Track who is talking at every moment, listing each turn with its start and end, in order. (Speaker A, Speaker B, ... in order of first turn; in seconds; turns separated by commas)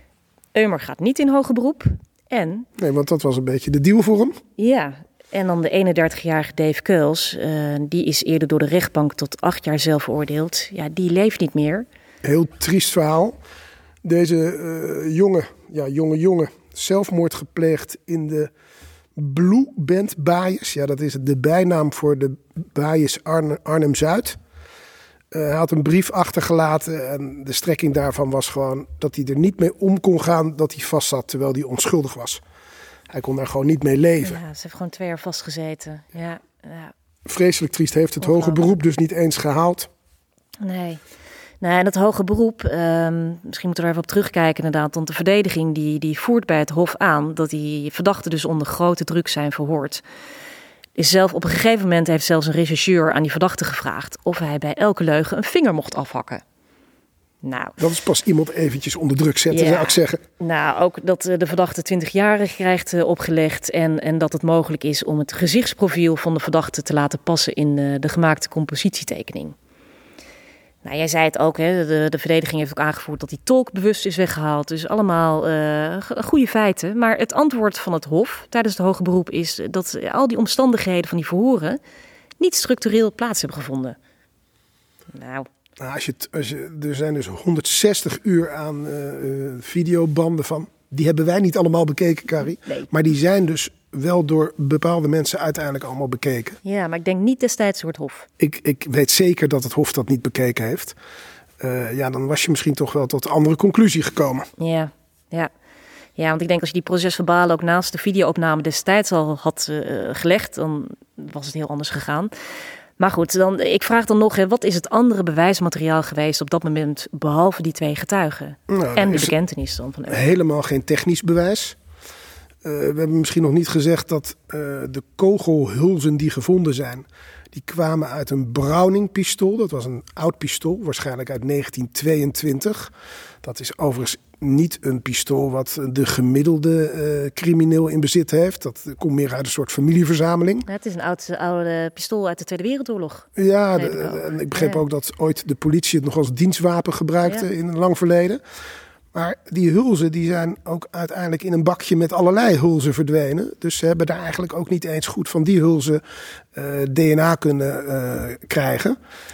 Speaker A: 0.5-2.7, Speaker B: 2.8-4.3, Speaker A: 4.6-11.8, Speaker B: 12.2-13.4, Speaker B: 14.0-18.5, Speaker B: 19.1-24.4, Speaker B: 25.3-32.4, Speaker B: 33.1-34.4, Speaker A: 34.2-36.9, Speaker B: 37.2-39.9, Speaker A: 38.2-38.6, Speaker A: 40.6-41.0, Speaker A: 41.6-50.0, Speaker A: 51.0-56.4, Speaker A: 57.4-57.8, Speaker B: 57.8-60.2, Speaker A: 59.5-69.5, Speaker A: 70.8-81.8, Speaker A: 82.4-84.0, Speaker A: 85.1-85.5, Speaker B: 85.8-96.6, Speaker A: 96.6-98.3, Speaker B: 98.4-101.0, Speaker B: 101.6-104.5, Speaker A: 104.6-105.5, Speaker A: 106.2-112.3, Speaker A: 113.0-120.3, Speaker B: 118.7-119.3, Speaker B: 120.1-121.8, Speaker B: 122.6-132.9, Speaker B: 133.4-140.7, Speaker A: 140.7-144.8, Speaker B: 143.3-148.4, Speaker B: 149.1-156.0, Speaker B: 156.5-159.0